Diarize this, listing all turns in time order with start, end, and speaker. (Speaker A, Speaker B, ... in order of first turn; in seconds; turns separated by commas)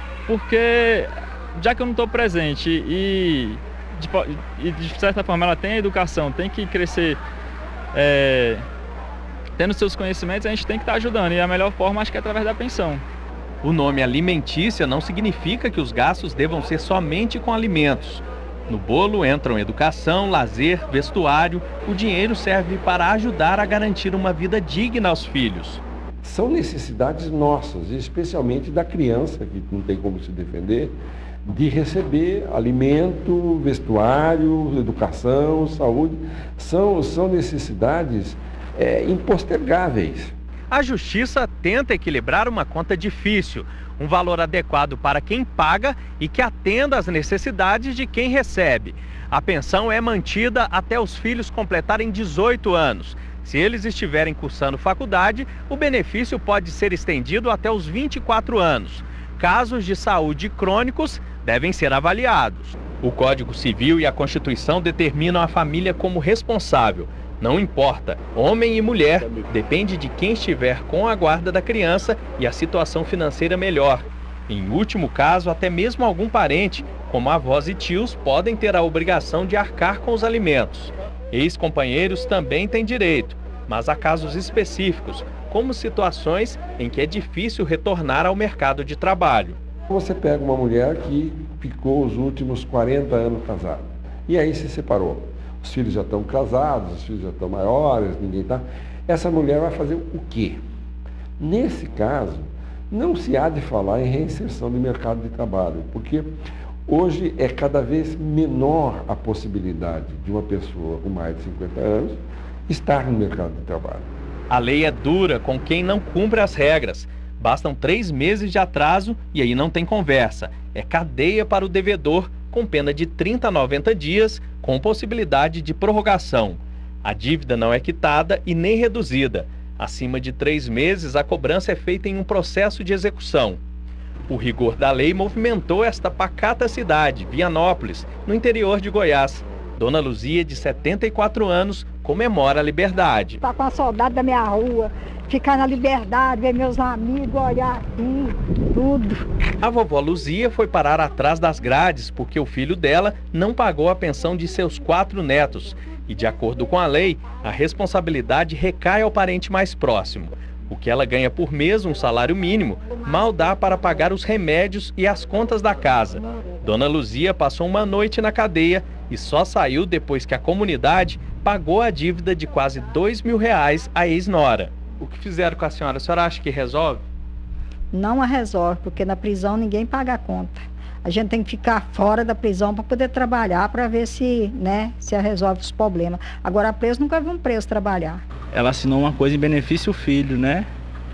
Speaker A: 0.3-7.2, Speaker A: 7.9-8.6, Speaker A: 9.6-13.0, Speaker B: 13.6-25.8, Speaker C: 26.2-40.3, Speaker B: 40.7-89.6, Speaker C: 89.9-100.6, Speaker C: 101.4-106.3, Speaker C: 106.9-114.1, Speaker B: 114.5-133.6, Speaker B: 134.3-143.4, Speaker D: 143.4-149.2, Speaker B: 149.6-177.0, Speaker D: 177.9-188.2, Speaker E: 188.5-190.7